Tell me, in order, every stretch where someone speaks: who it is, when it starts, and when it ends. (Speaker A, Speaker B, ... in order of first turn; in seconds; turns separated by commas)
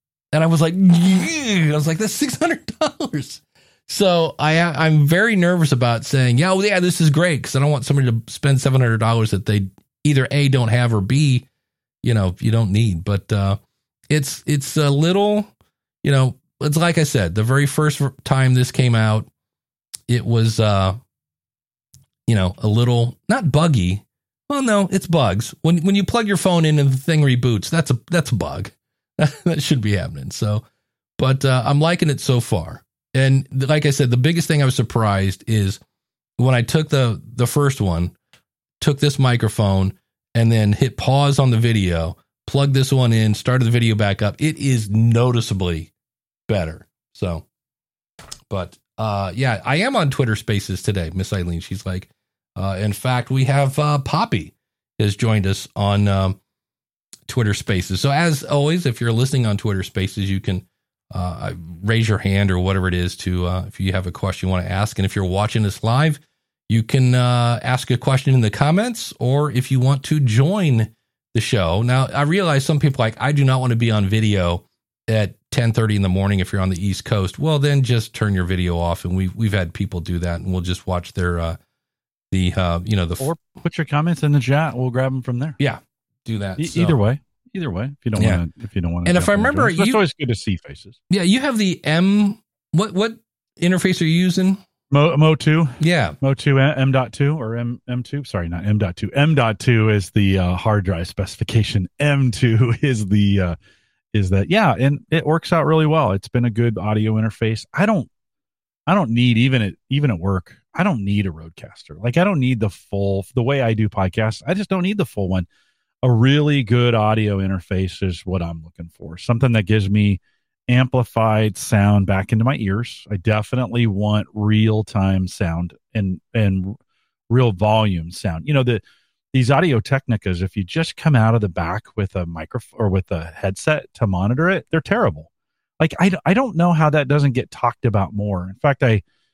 Speaker A: 0.3-11.4, Speaker A: 12.0-13.6, Speaker A: 14.1-15.5, Speaker A: 16.0-19.3, Speaker A: 20.1-21.0, Speaker A: 22.3-30.6, Speaker A: 31.2-35.8, Speaker A: 36.4-38.1, Speaker A: 38.8-45.9, Speaker A: 46.5-47.4, Speaker A: 48.5-56.4, Speaker A: 57.3-81.6, Speaker A: 82.3-83.3, Speaker B: 83.2-85.6, Speaker A: 85.6-87.0, Speaker B: 86.6-91.0, Speaker A: 88.2-88.4, Speaker A: 89.0-90.0, Speaker A: 91.1-94.6, Speaker B: 94.9-103.5, Speaker A: 95.8-96.2, Speaker B: 104.1-108.1, Speaker B: 108.9-115.5, Speaker B: 116.0-126.8, Speaker B: 127.3-128.8, Speaker B: 129.3-139.0